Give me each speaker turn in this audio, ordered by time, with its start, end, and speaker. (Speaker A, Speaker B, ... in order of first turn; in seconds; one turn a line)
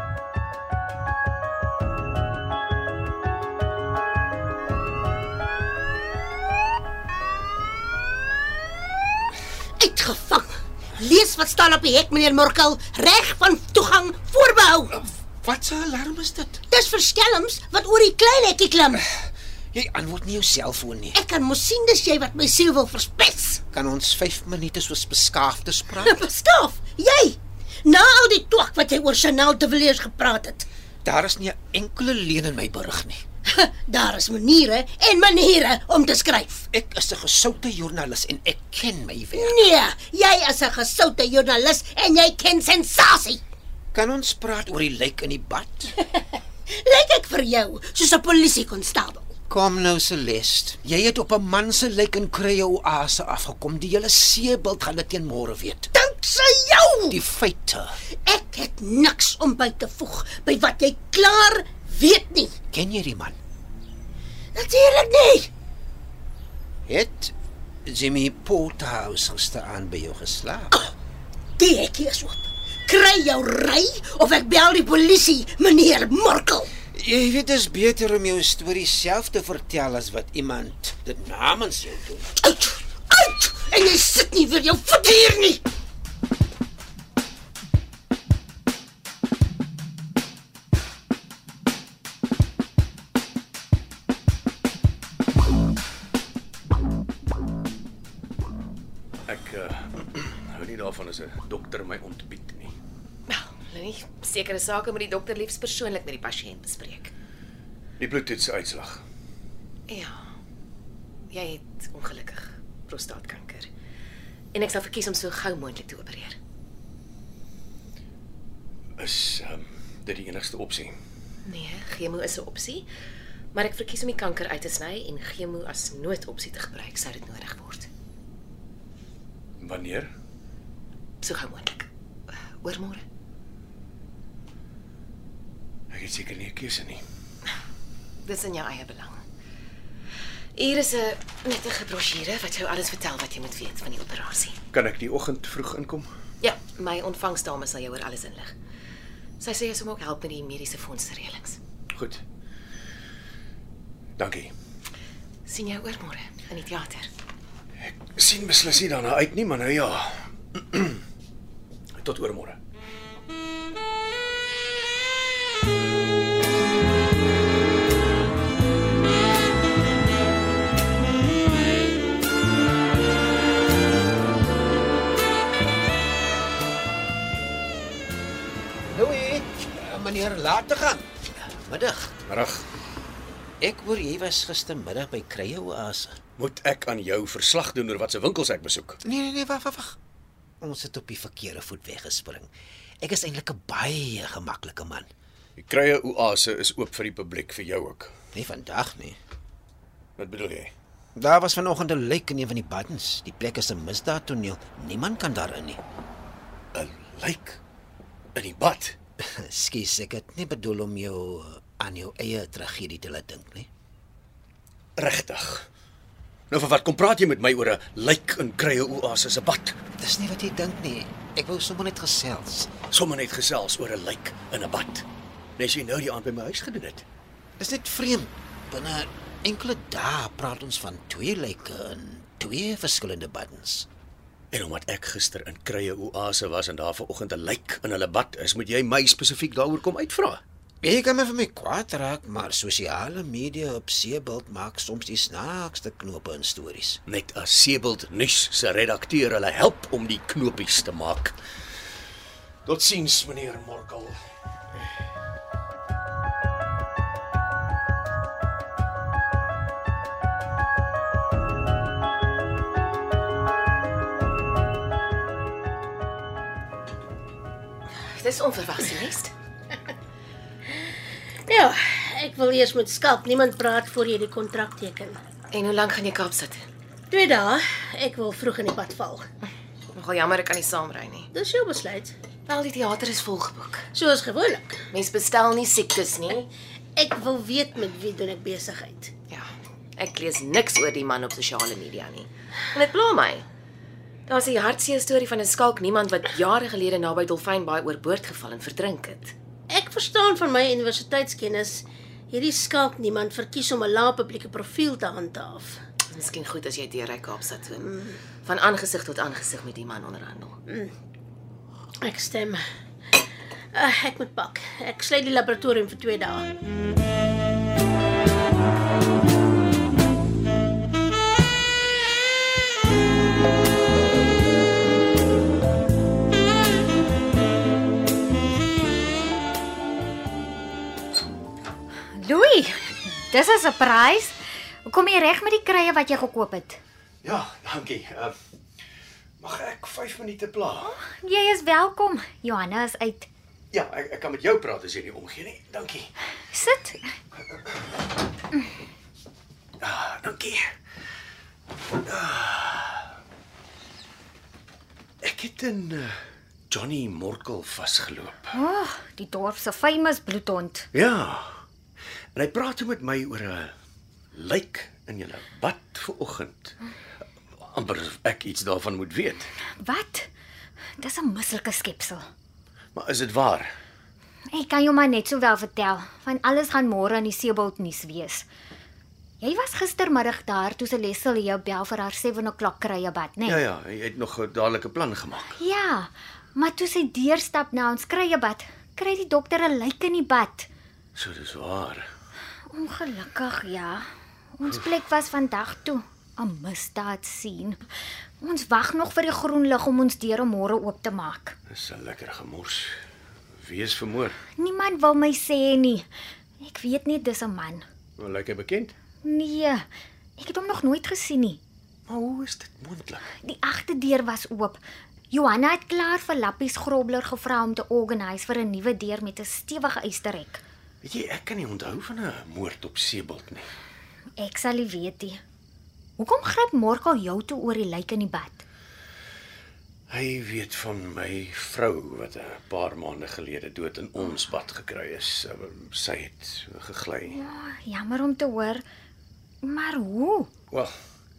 Speaker A: 9.8-14.9
Speaker B: 15.4-16.6
Speaker A: 16.7-19.0
Speaker B: 19.1-21.2
Speaker A: 21.1-23.6
Speaker B: 23.7-26.2
Speaker A: 25.9-30.7
Speaker B: 31.0-33.2
Speaker A: 33.5-36.6
Speaker B: 36.7-39.6
Speaker A: 39.3-43.4
Speaker B: 43.9-46.0
Speaker A: 46.7-49.3
Speaker B: 49.5-55.9
Speaker A: 56.0-57.2
Speaker B: 57.1-58.0
Speaker A: 58.2-62.6
Speaker B: 62.7-63.4
Speaker A: 64.5-65.5
Speaker B: 66.9-67.3
Speaker B: 67.9-70.7
Speaker A: 71.6-76.7
Speaker B: 76.9-82.3
Speaker A: 82.5-85.6
Speaker C: 99.3-102.7
Speaker D: 103.3-107.1
Speaker C: 108.0-109.0
Speaker D: 109.9-110.2
Speaker D: 111.3-113.7
Speaker D: 114.5-116.4
Speaker C: 119.0-121.0
Speaker D: 121.5-122.9
Speaker D: 123.5-127.9
Speaker C: 129.6-130.1
Speaker D: 131.2-131.9
Speaker D: 132.6-133.0
Speaker C: 135.9-137.0
Speaker D: 138.2-139.2
Speaker D: 140.6-144.6
Speaker C: 144.7-146.1
Speaker D: 146.4-148.5
Speaker D: 149.4-151.6
Speaker C: 151.9-152.2
Speaker C: 154.2-154.5
Speaker D: 155.5-157.1
Speaker C: 157.8-161.0
Speaker C: 162.0-162.6
Speaker B: 178.9-182.2
Speaker C: 182.3-182.7
Speaker B: 183.6-186.2
Speaker C: 186.4-189.0
Speaker B: 189.0-190.0
Speaker B: 190.6-195.1
Speaker C: 195.6-198.1
Speaker B: 198.3-199.2
Speaker C: 200.2-200.7
Speaker B: 201.2-205.8
Speaker C: 206.7-207.6
Speaker C: 208.3-209.0
Speaker B: 209.2-213.7
Speaker C: 215.0-215.7
Speaker C: 216.5-219.8
Speaker B: 220.0-222.7
Speaker C: 222.9-225.1
Speaker C: 225.6-227.1
Speaker B: 227.6-233.9
Speaker C: 234.5-240.4
Speaker B: 240.8-247.0
Speaker C: 247.1-251.4
Speaker C: 252.7-254.2
Speaker D: 268.1-269.3
Speaker A: 271.5-275.2
Speaker D: 275.5-276.7
Speaker A: 277.1-279.3
Speaker D: 279.9-281.3
Speaker A: 281.3-282.1
Speaker D: 282.5-283.9
Speaker A: 283.9-284.8
Speaker D: 284.9-286.5
Speaker A: 287.0-289.1
Speaker D: 289.3-293.4
Speaker D: 294.3-299.3
Speaker A: 299.7-305.8
Speaker D: 306.1-310.6
Speaker A: 312.0-312.6
Speaker A: 313.7-316.4
Speaker E: 332.1-336.8
Speaker C: 337.2-338.3
Speaker C: 339.4-341.0
Speaker E: 341.1-343.3
Speaker C: 343.7-346.1
Speaker E: 346.5-347.1
Speaker C: 349.8-350.7
Speaker C: 352.0-353.1
Speaker C: 355.2-356.2
Speaker C: 356.7-358.5
Speaker E: 358.5-360.9
Speaker C: 360.9-361.6
Speaker C: 362.4-363.7
Speaker C: 364.3-366.8
Speaker C: 367.6-369.5
Speaker E: 369.8-370.3
Speaker E: 371.0-372.2
Speaker C: 372.9-373.7
Speaker E: 374.5-378.5
Speaker E: 379.4-383.6
Speaker C: 383.4-385.6
Speaker E: 385.5-390.7
Speaker C: 391.2-392.1
Speaker E: 392.7-394.1
Speaker E: 394.6-397.8
Speaker E: 398.4-401.6
Speaker C: 401.7-402.9
Speaker C: 403.6-404.4
Speaker E: 404.6-406.1
Speaker E: 406.6-407.9
Speaker C: 408.2-408.9
Speaker E: 409.2-409.8
Speaker E: 410.4-411.6
Speaker C: 412.1-413.2
Speaker E: 413.4-420.6
Speaker C: 421.0-423.7
Speaker E: 424.4-425.4
Speaker E: 426.2-428.6
Speaker C: 430.1-437.4
Speaker E: 437.3-438.8
Speaker E: 439.6-440.5